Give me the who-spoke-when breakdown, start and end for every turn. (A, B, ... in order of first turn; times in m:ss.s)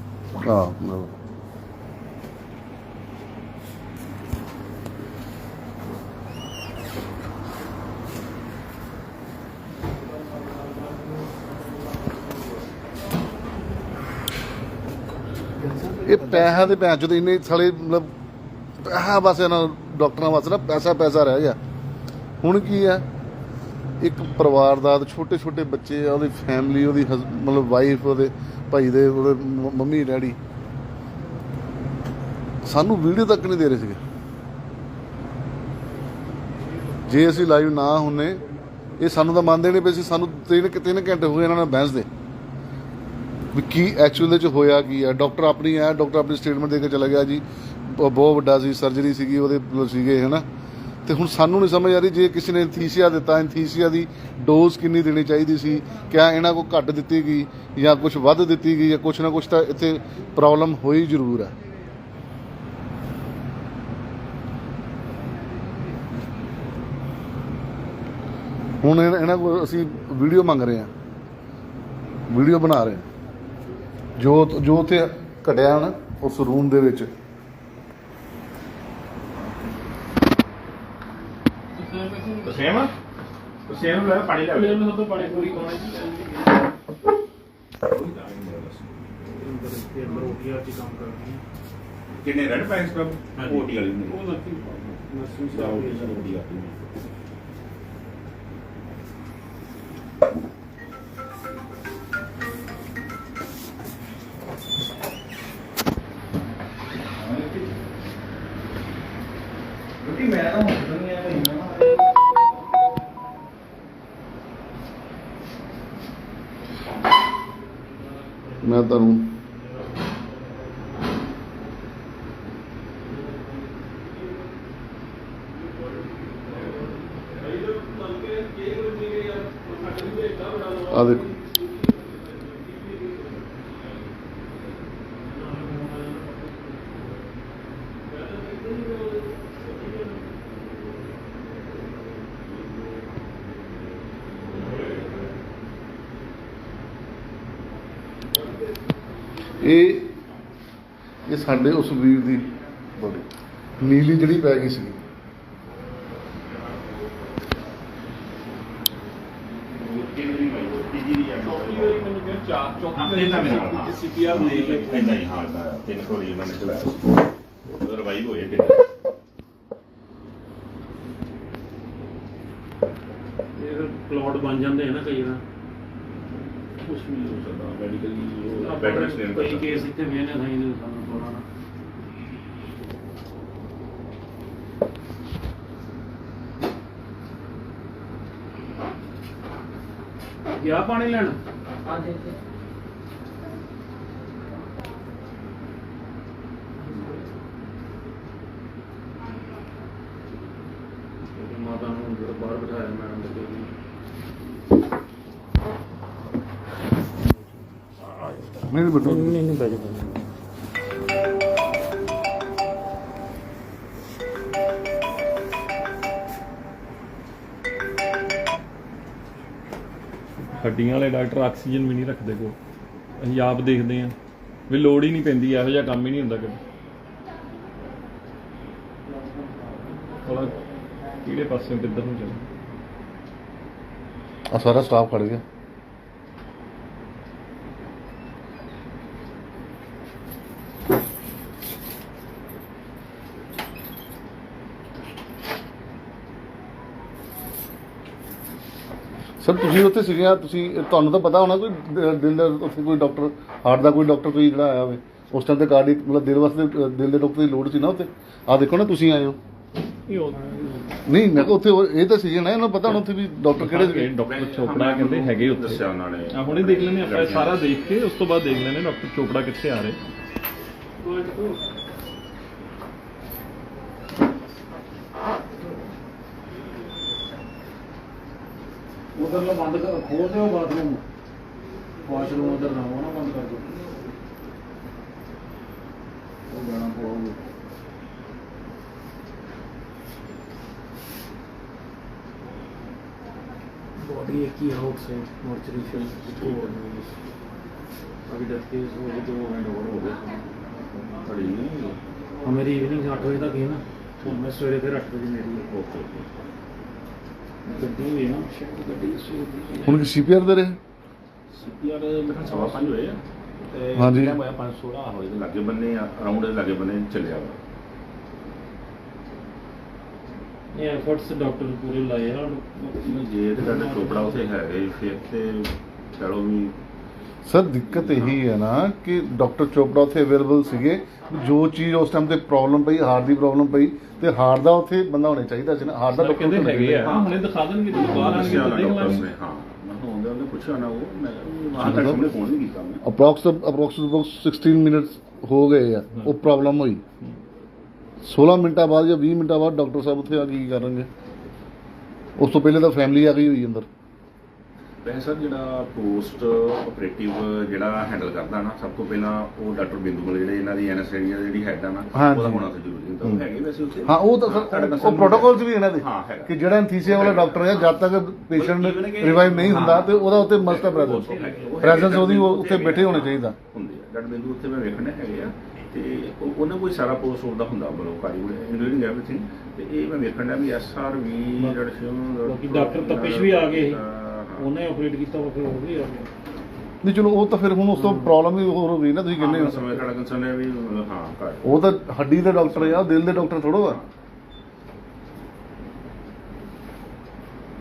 0:00.4-0:01.1 A
0:16.0-0:18.1 A
0:18.8-0:21.6 A
0:22.4-0:23.0 A
0:24.0-0:30.4 A
0:32.6-0:34.0 A
0:37.1-0:38.4 A
0:39.0-0:42.1 A
0:43.5-0:50.4 A
0:51.0-1:01.5 A
1:08.8-1:10.9 A
1:12.3-1:13.0 A
1:14.2-1:17.1 A
1:21.7-1:22.5 B
1:22.4-1:22.9 C
1:23.6-1:25.1 C
1:24.5-1:26.4 B
1:25.2-1:25.8 D
1:27.9-1:29.5 C
1:29.4-1:31.4 B
1:32.1-1:35.0 C
1:33.4-1:36.3 B
1:35.5-1:36.8 C
1:50.4-1:51.5 C
1:58.6-1:59.3 A
2:07.2-2:13.3 D
2:10.9-2:11.3 A
2:15.3-2:16.1 B
2:18.3-2:19.2 D
2:29.6-2:30.2 A
2:31.3-2:33.2 A
2:33.8-2:35.0 A
2:39.7-2:42.0 C
2:41.4-2:45.2 D
2:42.9-2:47.1 C
2:47.7-2:48.9 C
2:53.6-2:55.4 B
2:56.8-2:59.9 C
2:58.5-3:01.4 B
3:10.6-3:12.2 B
3:21.3-3:23.7 B
3:28.1-3:28.5 B
3:28.6-3:29.4 A
3:29.0-3:30.2 B
3:40.6-3:42.6 D
3:43.2-3:44.2 D
3:44.7-3:46.6 D
3:50.2-3:50.5 D
3:51.2-3:52.4 D
3:54.5-3:55.4 A
4:09.4-4:19.4 A
4:20.1-4:20.4 D
4:20.4-4:20.9 B
4:21.1-4:24.1 A
4:23.5-4:30.0 D
4:24.2-4:27.6 C
4:31.0-4:31.6 B
4:39.1-4:41.0 B
4:42.0-4:43.8 B
4:46.5-4:47.4 B
4:54.0-4:57.1 B
4:55.8-4:56.8 C
4:58.3-5:00.4 B
4:59.8-5:00.1 C
5:01.2-5:02.0 C
5:02.4-5:05.7 B
5:04.2-5:04.5 C
5:05.6-5:06.3 C
5:07.6-5:10.0 B
5:09.8-5:10.8 A
5:11.5-5:17.6 C
5:12.4-5:12.9 B
5:14.0-5:14.4 A
5:20.7-5:24.4 B
5:22.8-5:26.7 C
5:27.4-5:37.1 A
5:27.9-5:28.4 C
5:36.1-5:39.3 D
5:37.0-5:43.0 C
5:38.1-5:38.6 A
5:41.8-5:42.4 A
5:43.0-5:47.0 A
5:48.2-5:51.1 A
5:52.4-5:53.9 A
5:55.0-6:24.7 C
6:02.1-6:02.7 A
6:04.0-6:13.6 A
6:11.4-6:11.7 B
6:22.4-6:24.0 B
6:24.6-6:26.3 B
6:27.0-6:30.0 A
6:27.9-6:28.3 B
6:29.3-6:31.7 C
6:31.6-6:34.0 A
6:32.6-6:34.1 C